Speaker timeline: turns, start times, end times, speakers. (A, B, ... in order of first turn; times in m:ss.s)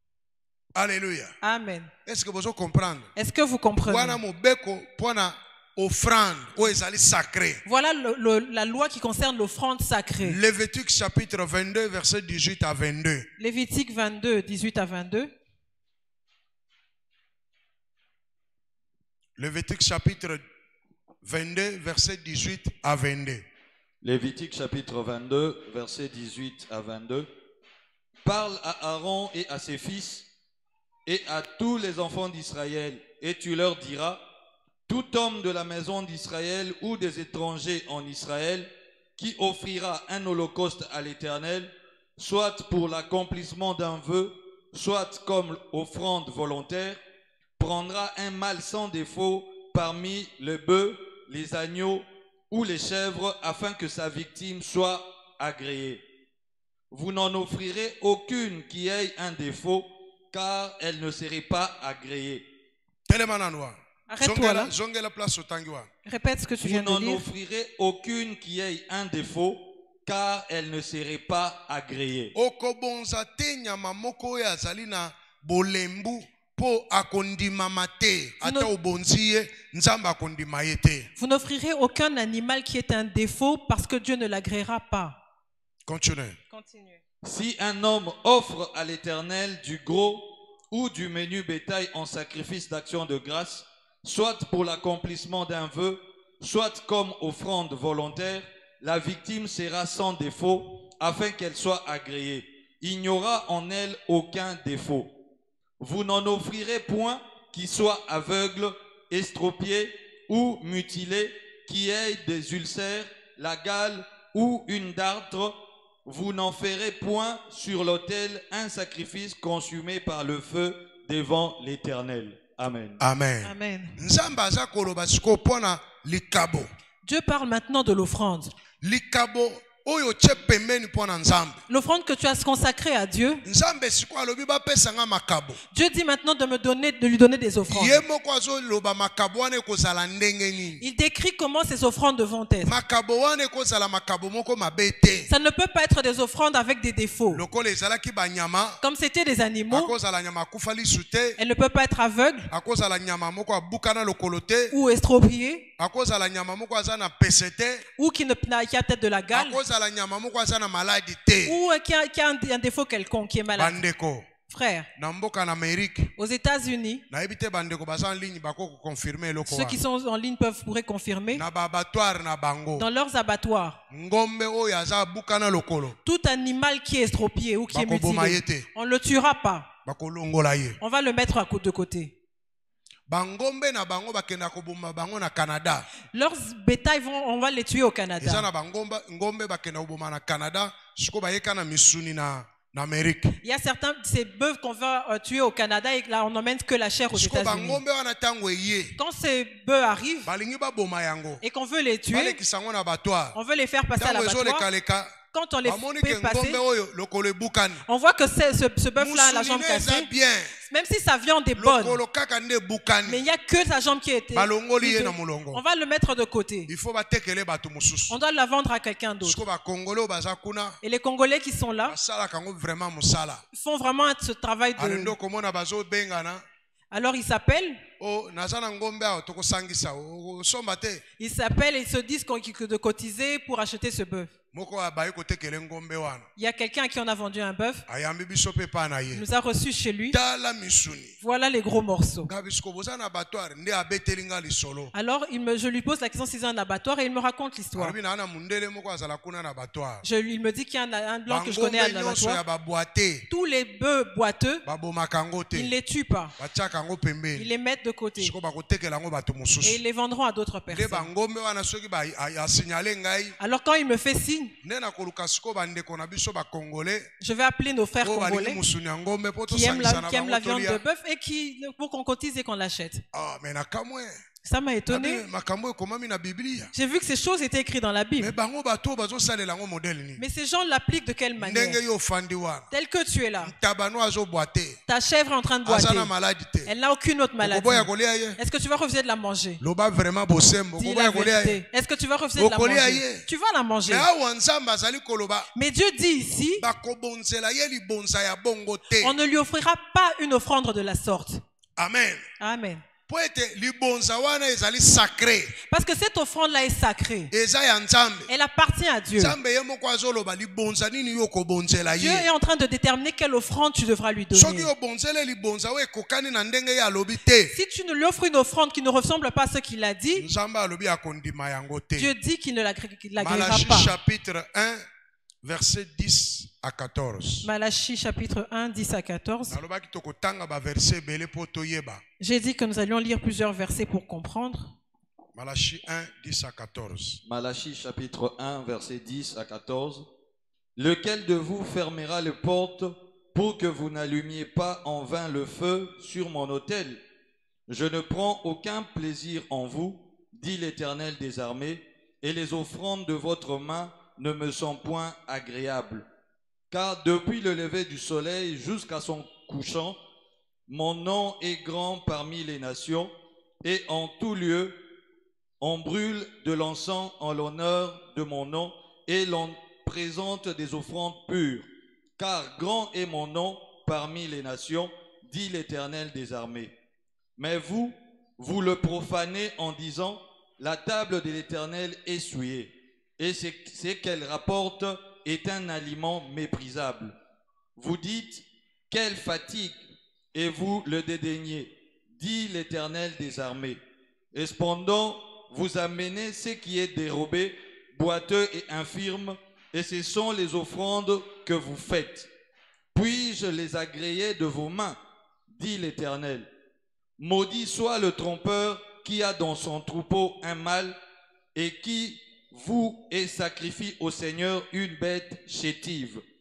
0:00.8-0:01.3 A
0:01.4-0:01.9 B
0:02.1-0:03.1 A
0:03.2-0:04.2 B
0:03.8-0:07.6 A
0:07.7-0:10.4 B
0:10.2-0:13.3 A
0:13.4-0:15.3 B
0:19.4-0:20.4 A
0:21.2-0:23.4 A
0:24.0-0:27.3 C
0:28.2-0:30.3 C
0:31.1-0:34.2 C
0:34.9-0:47.0 C
0:47.6-0:56.0 C
0:56.9-1:02.4 C
1:03.1-1:05.9 A
1:04.1-1:04.7 B
1:06.1-1:07.2 B
1:06.6-1:12.3 C
1:12.4-1:21.1 A
1:18.4-1:18.7 B
1:21.2-1:25.2 B
1:25.9-1:26.4 A
1:26.5-1:27.0 B
1:27.2-1:45.1 C
1:45.8-2:03.0 C
2:03.0-2:06.7 A
2:03.4-2:04.0 B
2:07.0-2:08.5 B
2:08.8-2:11.6 A
2:11.7-2:13.4 B
2:13.4-2:15.6 A
2:15.7-2:18.0 B
2:17.7-2:20.8 A
2:20.8-2:22.7 B
2:22.7-2:25.3 A
2:25.3-2:27.4 B
2:27.3-2:28.8 A
2:28.8-2:29.9 B
2:29.7-2:31.4 A
2:31.4-2:32.5 B
2:32.5-2:34.7 A
2:34.7-2:35.6 B
2:35.8-2:37.8 A
2:38.0-2:39.6 B
2:39.3-2:41.6 A
2:41.5-2:43.8 B
2:43.6-2:44.3 A
2:44.5-2:44.9 B
2:45.0-2:46.1 A
2:46.2-2:47.0 B
2:47.1-2:49.8 A
2:49.4-2:51.4 B
2:51.3-2:52.9 A
2:52.8-2:53.8 B
2:53.9-2:56.0 A
2:56.0-2:59.7 B
2:57.7-2:58.7 A
2:59.8-3:00.8 A
3:00.8-3:02.1 B
3:03.1-3:05.9 A
3:06.1-3:08.4 B
3:08.2-3:13.4 A
3:13.4-3:17.8 B
3:17.1-3:19.0 A
3:19.0-3:20.3 B
3:20.2-3:21.4 A
3:21.4-3:22.4 B
3:22.1-3:23.4 A
3:23.4-3:24.7 B
3:24.0-3:27.8 A
3:25.3-3:26.6 B
3:27.9-3:30.1 B
3:29.0-3:30.5 A
3:30.6-3:32.0 B
3:31.6-3:33.2 A
3:33.1-3:36.7 B
3:34.3-3:35.6 A
3:36.7-3:38.2 A
3:38.1-3:39.4 B
3:39.2-3:40.8 A
3:40.8-3:42.0 B
3:41.9-3:43.4 A
3:43.5-3:45.1 B
3:44.8-3:46.4 A
3:46.9-3:47.8 B
3:48.0-3:51.0 A
3:51.2-3:54.3 B
3:54.5-3:56.3 A
3:56.4-3:57.8 B
3:57.9-3:59.2 A
3:59.1-4:00.2 B
4:00.1-4:01.2 A
4:01.2-4:02.3 B
4:02.3-4:04.9 A
4:04.9-4:08.0 B
4:07.8-4:10.0 A
4:10.0-4:12.4 B
4:11.3-4:13.3 A
4:13.3-4:14.6 B
4:14.6-4:15.7 A
4:15.5-4:16.3 B
4:16.4-4:17.5 A
4:17.4-4:18.3 B
4:18.2-4:19.8 A
4:19.6-4:21.1 B
4:20.7-4:23.4 A
4:23.4-4:24.5 B
4:24.6-4:27.1 A
4:27.2-4:28.6 B
4:28.0-4:30.8 A
4:29.5-4:33.0 B
4:33.1-4:34.2 A
4:34.4-4:35.2 B
4:34.9-4:36.7 A
4:36.7-4:38.3 B
4:38.2-4:40.2 A
4:40.2-4:41.8 B
4:41.4-4:42.7 A
4:42.7-4:43.5 B
4:43.4-4:44.8 A
4:44.9-4:46.1 B
4:45.6-4:46.7 A
4:46.7-4:49.6 B
4:47.4-4:48.4 A
4:49.6-4:51.6 A
4:50.8-4:54.1 B
4:52.4-4:53.2 A
4:53.9-4:55.5 A
4:55.6-4:56.6 B
4:56.6-4:59.1 A
4:59.0-5:01.4 B
5:01.8-5:02.2 A
5:02.4-5:02.8 B
5:03.1-5:05.6 A
5:05.7-5:07.3 B
5:07.3-5:08.3 A
5:08.3-5:09.4 B
5:09.2-5:12.3 A
5:12.0-5:14.7 B
5:14.3-5:17.5 A
5:17.5-5:20.3 B
5:20.2-5:22.1 A
5:22.0-5:23.9 B
5:23.2-5:24.8 A
5:25.4-5:27.5 A
5:27.4-5:29.6 B
5:29.5-5:32.0 A
5:32.2-5:34.7 B
5:35.4-5:37.2 A
5:37.2-5:40.0 C
5:40.8-5:47.0 C
5:47.7-5:56.0 C
5:56.7-6:00.0 C
6:00.7-6:03.1 C
6:03.6-6:04.8 C
6:05.6-6:11.7 C
6:12.2-6:16.7 C
6:17.4-6:27.1 C
6:27.8-6:29.8 C
6:30.3-6:33.8 C
6:34.3-6:42.3 C
6:42.9-6:45.0 C
6:45.5-6:46.5 C
6:47.2-6:51.0 C
6:51.6-6:56.2 C